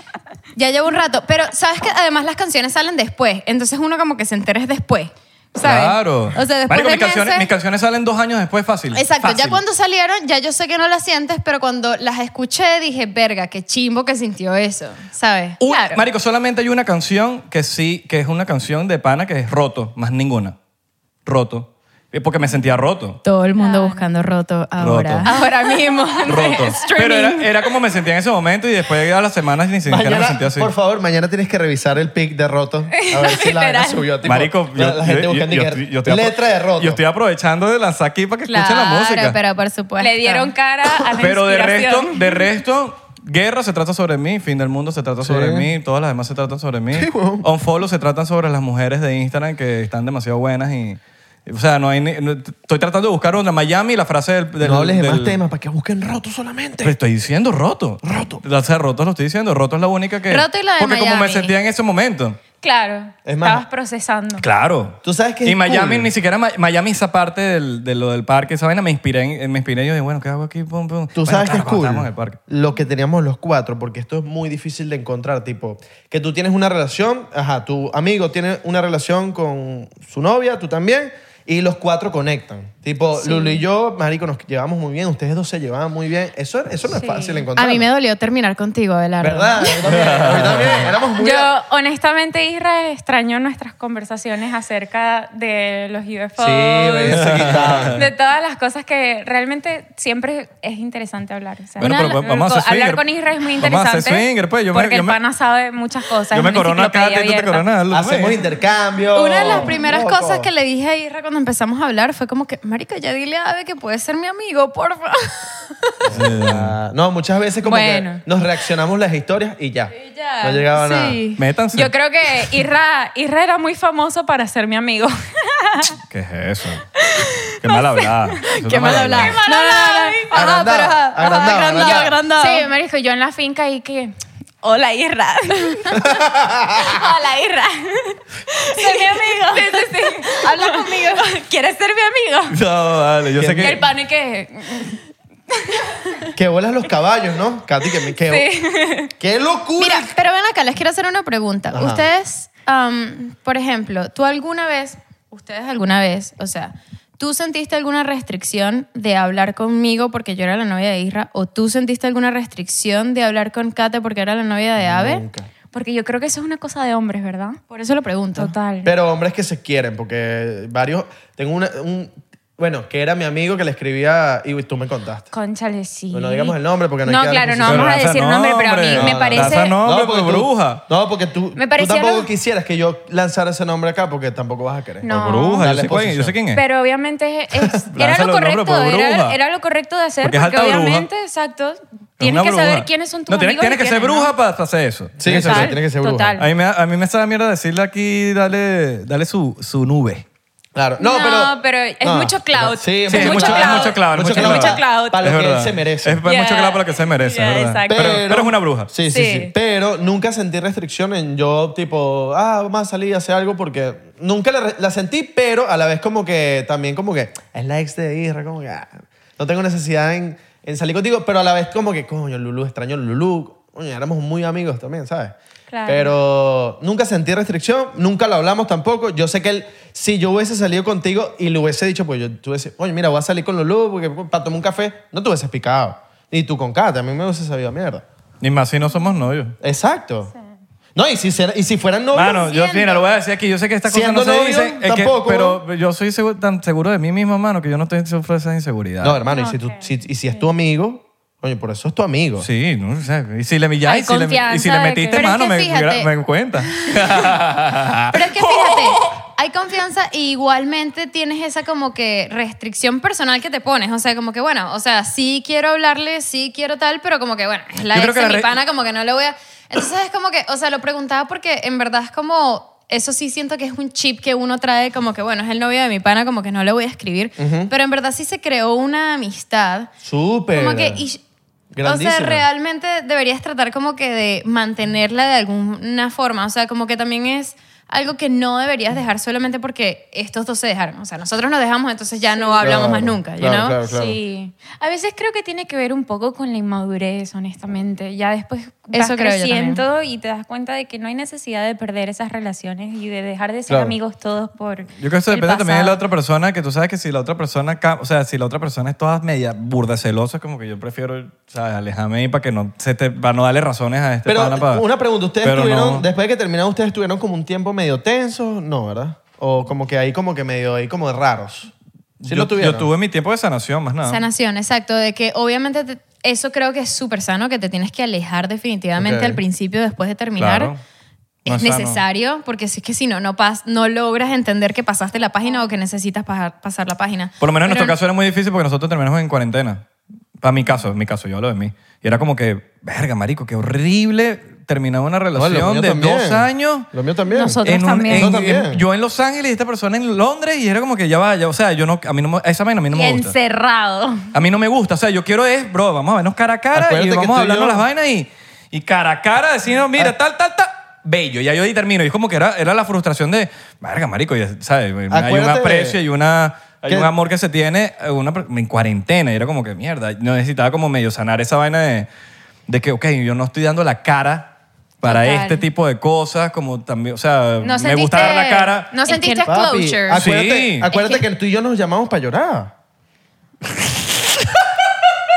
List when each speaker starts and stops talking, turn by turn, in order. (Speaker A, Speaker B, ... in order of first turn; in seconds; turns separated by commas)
Speaker A: 0.5-7.5, Speaker B: 5.6-9.6, Speaker A: 8.9-15.9, Speaker B: 15.6-20.6, Speaker B: 21.2-23.2, Speaker A: 23.2-27.4, Speaker C: 23.6-24.1, Speaker B: 24.8-25.3, Speaker C: 25.2-27.1, Speaker B: 26.2-30.7, Speaker D: 29.9-37.0, Speaker A: 33.1-33.9, Speaker B: 34.2-39.4, Speaker A: 38.5-40.5, Speaker C: 40.0-42.5, Speaker B: 41.2-55.4, Speaker D: 45.2-45.7, Speaker D: 46.9-47.5, Speaker D: 54.6-56.9, Speaker B: 56.8-62.4, Speaker D: 58.0-58.4, Speaker A: 60.3-61.5, Speaker C: 62.6-64.5, Speaker D: 63.2-63.6, Speaker B: 64.4-72.4, Speaker D: 65.0-66.1, Speaker D: 71.1-87.8, Speaker A: 83.3-83.6, Speaker C: 86.9-87.5, Speaker A: 87.5-90.0, Speaker D: 89.2-91.5, Speaker B: 89.8-90.9, Speaker C: 91.2-107.7, Speaker D: 96.4-98.0, Speaker B: 97.1-98.1, Speaker B: 101.8-103.0, Speaker B: 103.6-105.2, Speaker B: 106.3-108.4, Speaker D: 107.9-110.5, Speaker A: 109.1-115.9, Speaker C: 109.4-109.8, Speaker D: 116.0-121.2, Speaker B: 116.1-116.7, Speaker C: 117.6-118.2, Speaker A: 120.0-121.4, Speaker B: 121.3-121.9, Speaker C: 121.7-126.0, Speaker B: 126.1-126.8, Speaker C: 127.0-136.2, Speaker B: 127.6-129.4, Speaker A: 128.6-132.7, Speaker D: 130.3-132.2, Speaker A: 135.5-135.8, Speaker D: 135.9-136.9, Speaker C: 136.8-142.5, Speaker A: 138.7-141.4, Speaker B: 142.5-143.8, Speaker D: 143.4-143.8, Speaker C: 143.6-145.0, Speaker C: 145.7-146.2, Speaker D: 146.3-148.4, Speaker C: 148.2-149.1, Speaker D: 149.2-150.1, Speaker A: 149.8-165.2, Speaker D: 151.7-152.0, Speaker D: 164.8-165.5, Speaker C: 165.7-167.6, Speaker A: 167.7-168.5, Speaker C: 168.3-168.9, Speaker D: 168.8-175.3, Speaker C: 175.3-179.8, Speaker D: 176.1-178.0, Speaker B: 177.6-180.8, Speaker D: 178.9-186.3, Speaker C: 181.6-182.3, Speaker C: 185.0-185.7, Speaker B: 185.1-186.6, Speaker C: 186.5-194.3, Speaker B: 187.9-189.4, Speaker B: 190.2-191.1, Speaker B: 192.2-195.7, Speaker D: 195.2-196.3, Speaker C: 195.2-196.5, Speaker B: 196.4-200.2, Speaker D: 200.7-206.2, Speaker C: 201.0-205.2, Speaker B: 203.1-208.9, Speaker C: 206.2-208.2, Speaker D: 207.9-225.3, Speaker C: 209.1-209.5, Speaker C: 225.7-226.1, Speaker D: 225.8-238.0, Speaker B: 238.4-239.6, Speaker D: 239.6-240.3, Speaker D: 240.9-242.5, Speaker B: 242.1-249.2, Speaker A: 242.5-243.0, Speaker D: 243.9-245.6, Speaker D: 249.0-252.5, Speaker C: 249.3-250.4, Speaker B: 252.4-258.3, Speaker C: 253.8-255.3, Speaker A: 255.1-256.1, Speaker A: 258.1-279.9, Speaker B: 267.9-268.6, Speaker D: 277.4-277.7, Speaker D: 280.0-281.0, Speaker A: 280.5-281.2, Speaker D: 281.7-282.4, Speaker A: 281.8-293.8, Speaker C: 292.3-292.9, Speaker D: 292.6-294.2, Speaker C: 293.9-306.0, Speaker A: 298.9-299.8, Speaker D: 303.7-303.9, Speaker B: 305.0-314.9, Speaker D: 314.2-322.9, Speaker B: 315.4-316.1, Speaker B: 322.2-324.2, Speaker A: 324.0-330.7, Speaker D: 329.0-329.4, Speaker B: 330.4-330.8, Speaker B: 331.4-332.0, Speaker A: 331.4-337.9, Speaker B: 337.4-339.8, Speaker B: 340.4-346.9, Speaker D: 345.3-347.6, Speaker C: 347.3-348.4, Speaker B: 347.6-353.4, Speaker D: 348.1-348.8, Speaker C: 352.9-354.3, Speaker B: 354.3-372.1, Speaker D: 356.7-357.8, Speaker D: 365.1-366.0, Speaker B: 372.7-378.9, Speaker C: 375.0-375.6, Speaker C: 377.6-379.6, Speaker A: 378.2-380.2, Speaker D: 379.5-382.7, Speaker B: 380.1-380.9, Speaker A: 380.9-381.2, Speaker B: 383.8-384.6